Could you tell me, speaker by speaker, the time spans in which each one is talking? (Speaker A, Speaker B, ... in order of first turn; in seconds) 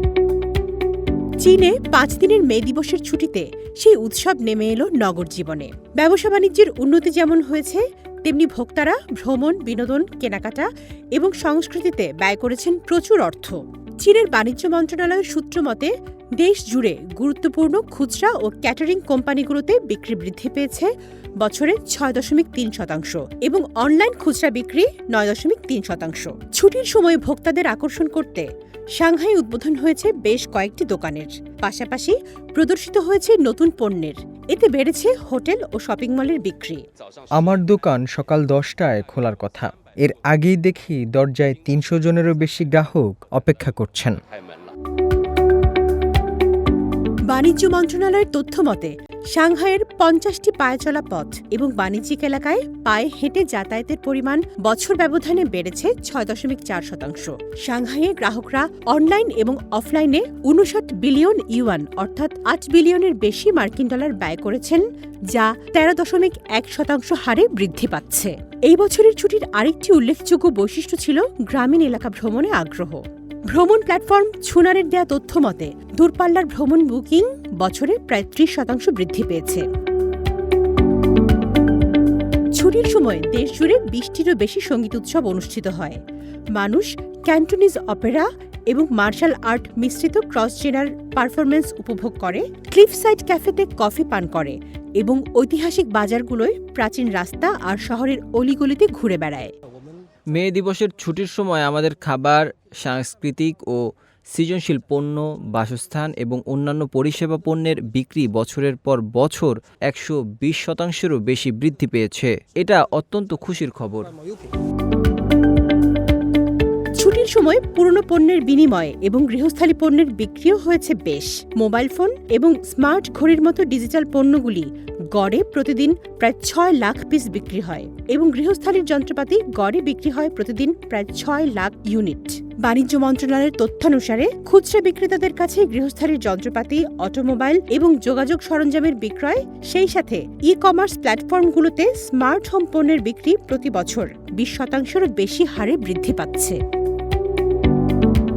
Speaker A: 1.4-20.9, 21.4-36.8, 47.3-79.6, 82.5-86.0, 86.5-99.5, 117.0-146.6
Speaker B: 37.4-44.2
Speaker C: 37.4-38.1, 100.3-114.1